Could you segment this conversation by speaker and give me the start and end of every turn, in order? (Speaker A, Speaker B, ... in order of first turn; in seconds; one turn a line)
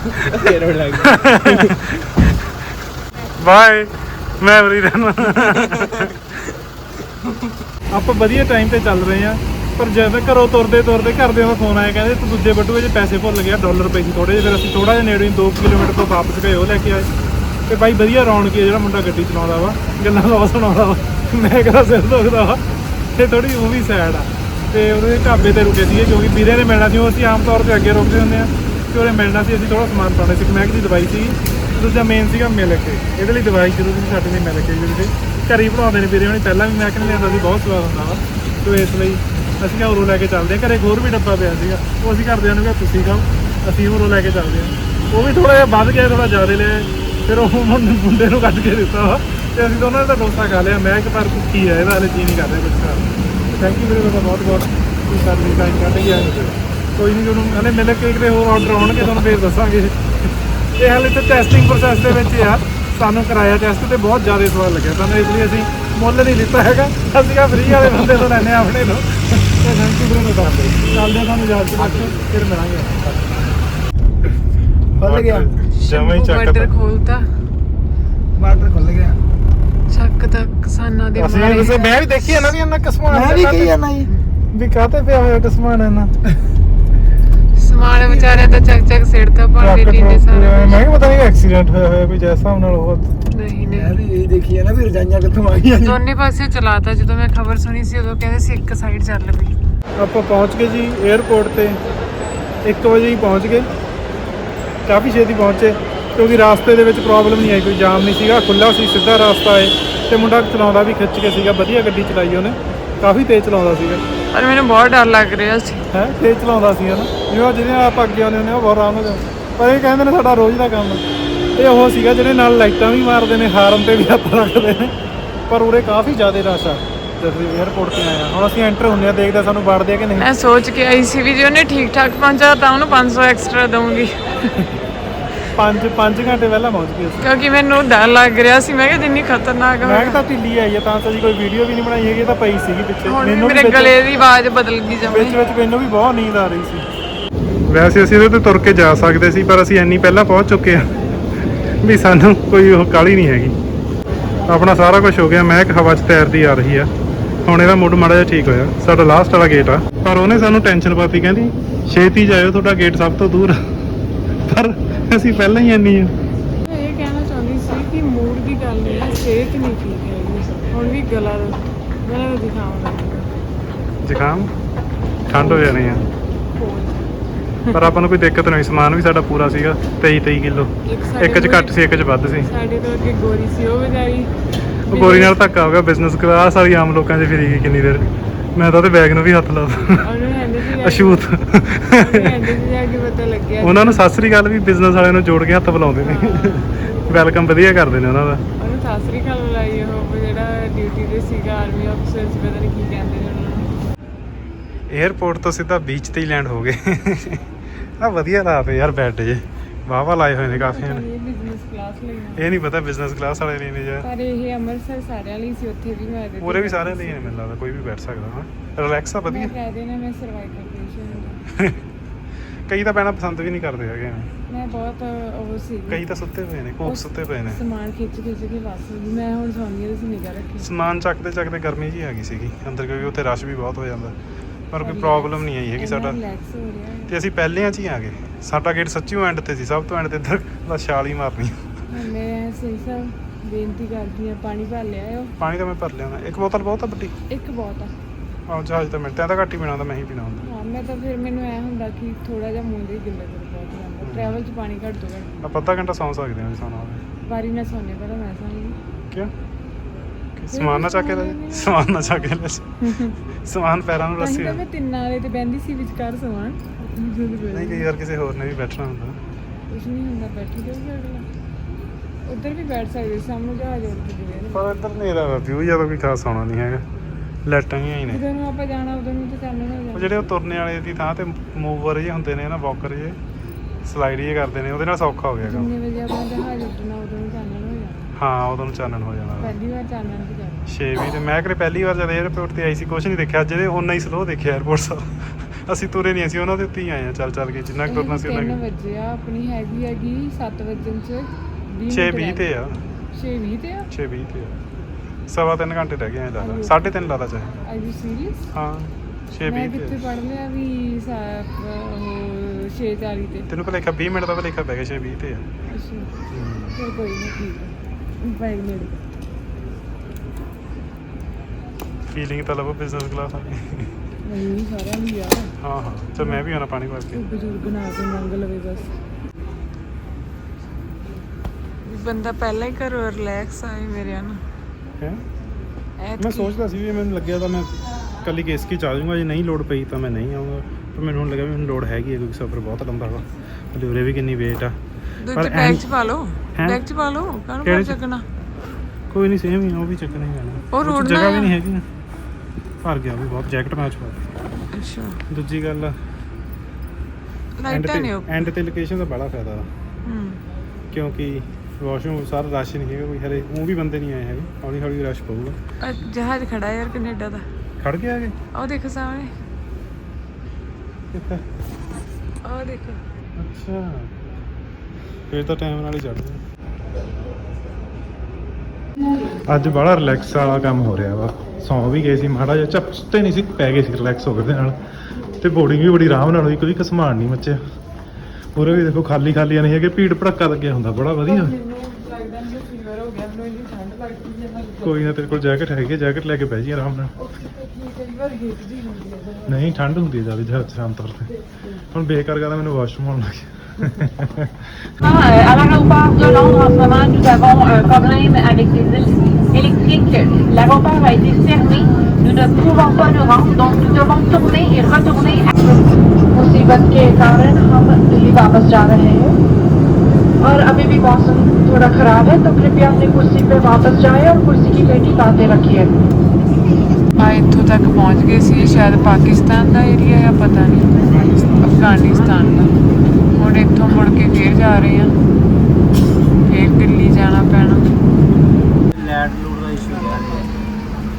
Speaker A: 0.3-1.7
Speaker B: 1.0-1.5
Speaker B: 3.4-6.1
Speaker B: 7.9-17.1
Speaker B: 17.7-22.6
Speaker B: 23.1-60.0
Speaker B: 60.8-73.0
Speaker C: 70.1-70.8
Speaker C: 71.7-73.4
Speaker B: 74.9-76.7
Speaker C: 74.9-75.5
Speaker D: 75.7-77.3
Speaker C: 78.3-79.2
Speaker D: 79.9-81.9
Speaker B: 81.2-83.8
Speaker C: 83.1-84.1
Speaker B: 84.5-86.1
Speaker D: 87.5-90.9
Speaker C: 88.0-88.5
Speaker B: 89.6-93.1
Speaker D: 93.3-94.0
Speaker C: 93.6-96.0
Speaker D: 95.8-99.6
Speaker B: 100.0-101.8
Speaker B: 102.6-103.7
Speaker B: 104.8-114.0
Speaker D: 114.3-115.8
Speaker B: 115.9-121.0
Speaker B: 121.5-124.9
Speaker B: 125.5-130.3
Speaker D: 130.2-134.7
Speaker B: 135.5-137.2
Speaker D: 137.2-140.2
Speaker B: 139.8-144.0
Speaker D: 143.1-145.4
Speaker B: 145.0-146.8
Speaker B: 147.7-151.1
Speaker B: 151.8-153.6
Speaker B: 154.4-156.9
Speaker B: 157.4-163.6
Speaker B: 164.4-166.1
Speaker D: 166.6-173.3
Speaker B: 174.0-174.5
Speaker B: 175.3-176.0
Speaker D: 175.3-175.9
Speaker D: 176.5-177.0
Speaker B: 177.7-182.5
Speaker D: 180.8-184.3
Speaker D: 184.9-185.3
Speaker B: 184.9-190.0
Speaker D: 190.0-194.0
Speaker B: 190.8-192.3
Speaker B: 193.6-198.4
Speaker D: 196.0-197.0
Speaker D: 198.6-203.7
Speaker B: 204.9-207.4
Speaker B: 208.0-211.0
Speaker D: 210.5-212.5
Speaker B: 212.3-214.1
Speaker D: 214.0-217.3
Speaker B: 216.4-219.5
Speaker D: 219.3-221.4
Speaker B: 222.7-224.3
Speaker D: 224.5-226.0
Speaker B: 225.9-227.6
Speaker D: 226.8-230.7
Speaker B: 230.6-234.1
Speaker B: 234.7-236.2
Speaker D: 234.8-237.1
Speaker B: 237.1-241.6
Speaker D: 241.9-245.3
Speaker B: 245.4-247.1
Speaker D: 247.3-247.9
Speaker B: 248.5-250.5
Speaker D: 250.4-255.4
Speaker B: 254.0-254.4
Speaker B: 255.4-257.0
Speaker D: 257.2-258.8
Speaker B: 260.4-262.7
Speaker D: 260.5-261.7
Speaker D: 262.8-263.1
Speaker B: 263.4-264.6
Speaker D: 264.2-267.9
Speaker B: 267.5-269.2
Speaker D: 269.7-271.3
Speaker D: 272.2-274.7
Speaker B: 274.5-276.8
Speaker B: 277.4-278.2
Speaker D: 278.1-280.3
Speaker B: 279.9-283.2
Speaker B: 283.9-285.7
Speaker D: 285.4-288.1
Speaker B: 288.1-289.5
Speaker D: 289.4-290.6
Speaker B: 290.7-298.6
Speaker D: 297.9-302.4
Speaker B: 301.9-302.8
Speaker D: 303.1-303.9
Speaker B: 303.9-304.6
Speaker B: 305.3-307.5
Speaker D: 306.4-306.9
Speaker D: 307.6-308.4
Speaker B: 308.5-310.0
Speaker D: 309.4-313.5
Speaker B: 313.5-315.4
Speaker D: 315.7-316.1
Speaker B: 316.3-316.8
Speaker D: 316.7-319.0
Speaker B: 322.1-323.9
Speaker D: 324.2-325.5
Speaker B: 325.6-327.2
Speaker D: 327.1-328.9
Speaker D: 331.8-334.4
Speaker D: 336.0-336.5
Speaker B: 336.2-344.7
Speaker D: 345.2-348.2
Speaker B: 345.3-345.9
Speaker B: 346.6-346.8
Speaker B: 347.6-348.0
Speaker B: 349.1-351.8
Speaker D: 350.7-351.5
Speaker B: 352.8-354.2
Speaker D: 354.7-355.2
Speaker B: 355.3-356.0
Speaker D: 357.6-358.3
Speaker B: 357.7-359.7
Speaker D: 360.0-360.4
Speaker B: 360.9-365.6
Speaker D: 365.8-367.4
Speaker B: 367.8-368.3
Speaker D: 368.5-369.3
Speaker B: 371.1-371.4
Speaker D: 372.4-373.0
Speaker B: 373.4-374.1
Speaker B: 375.3-376.4
Speaker B: 379.5-384.8
Speaker B: 385.4-387.6
Speaker B: 388.5-391.5
Speaker D: 391.2-395.2
Speaker B: 394.8-397.1
Speaker D: 397.1-399.7
Speaker B: 399.4-401.3
Speaker D: 401.3-401.8
Speaker B: 401.9-403.5
Speaker E: 405.0-415.9
Speaker F: 416.3-419.4
Speaker F: 420.4-425.9
Speaker D: 427.1-431.0
Speaker B: 431.0-431.9
Speaker D: 431.6-432.7
Speaker D: 433.3-435.1
Speaker D: 436.4-437.8
Speaker A: 439.1-440.4